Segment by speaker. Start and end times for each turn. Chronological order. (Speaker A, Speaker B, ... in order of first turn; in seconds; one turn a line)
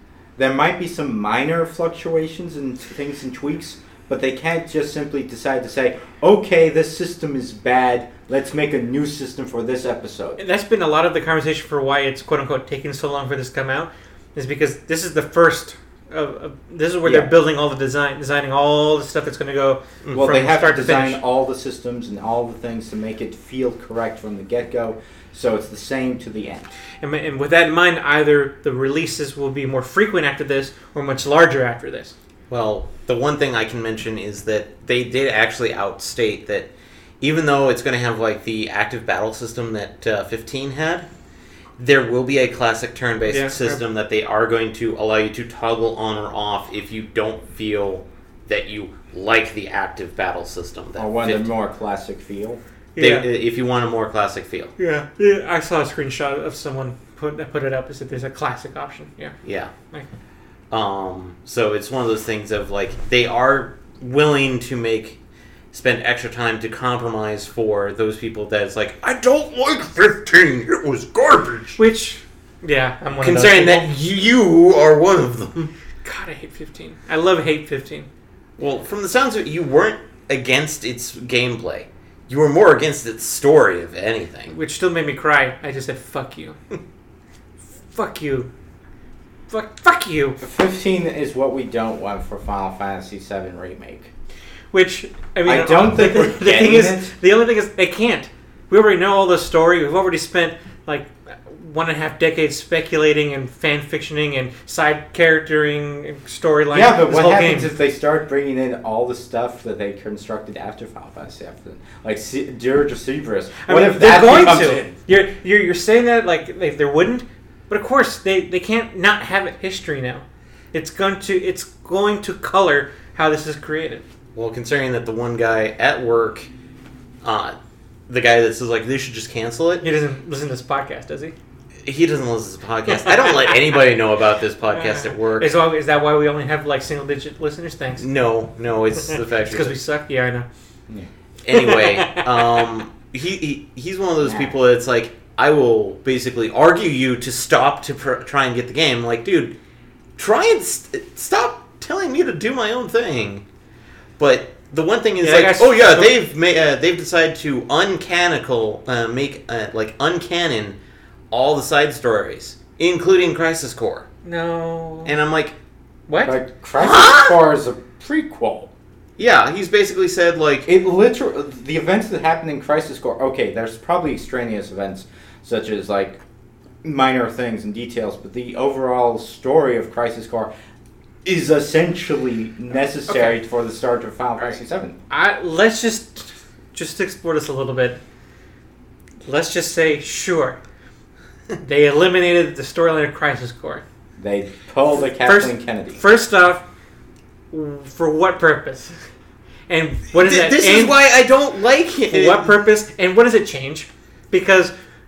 Speaker A: 0.4-10.4
Speaker B: 10.4-21.2
Speaker A: 17.0-17.3
Speaker A: 20.1-26.7
Speaker B: 27.0-32.1
Speaker C: 32.5-36.7
Speaker C: 37.2-41.1
Speaker C: 41.8-51.5
Speaker B: 43.3-43.8
Speaker A: 51.0-52.6
Speaker B: 53.0-53.3
Speaker C: 53.0-54.7
Speaker B: 54.8-59.4
Speaker C: 59.4-59.7
Speaker C: 60.7-65.2
Speaker C: 65.7-71.8
Speaker B: 71.8-73.9
Speaker C: 73.2-75.7
Speaker B: 76.0-78.1
Speaker C: 78.6-84.5
Speaker B: 84.5-86.6
Speaker B: 87.8-88.5
Speaker B: 89.5-90.4
Speaker A: 90.4-94.1
Speaker B: 94.7-107.7
Speaker A: 95.5-97.1
Speaker A: 106.7-115.0
Speaker B: 113.6-124.0
Speaker C: 124.3-126.5
Speaker C: 127.2-127.6
Speaker C: 128.1-129.8
Speaker B: 129.8-131.3
Speaker C: 131.8-135.5
Speaker B: 133.0-133.6
Speaker B: 134.7-138.1
Speaker C: 138.0-139.8
Speaker B: 139.1-140.5
Speaker C: 141.4-149.6
Speaker B: 141.5-142.6
Speaker A: 144.2-144.6
Speaker C: 150.2-153.4
Speaker C: 154.2-160.8
Speaker B: 155.2-156.1
Speaker C: 161.3-164.1
Speaker B: 164.2-165.1
Speaker C: 165.1-165.6
Speaker B: 166.1-166.4
Speaker A: 166.2-168.7
Speaker C: 166.8-167.4
Speaker C: 169.2-170.7
Speaker A: 170.7-176.2
Speaker A: 176.8-180.5
Speaker A: 181.2-185.0
Speaker B: 183.1-183.4
Speaker B: 185.1-188.0
Speaker B: 189.2-190.6
Speaker B: 191.6-193.8
Speaker A: 194.2-196.0
Speaker B: 195.2-196.7
Speaker B: 197.5-199.0
Speaker B: 199.7-201.0
Speaker C: 200.1-202.5
Speaker B: 202.1-204.7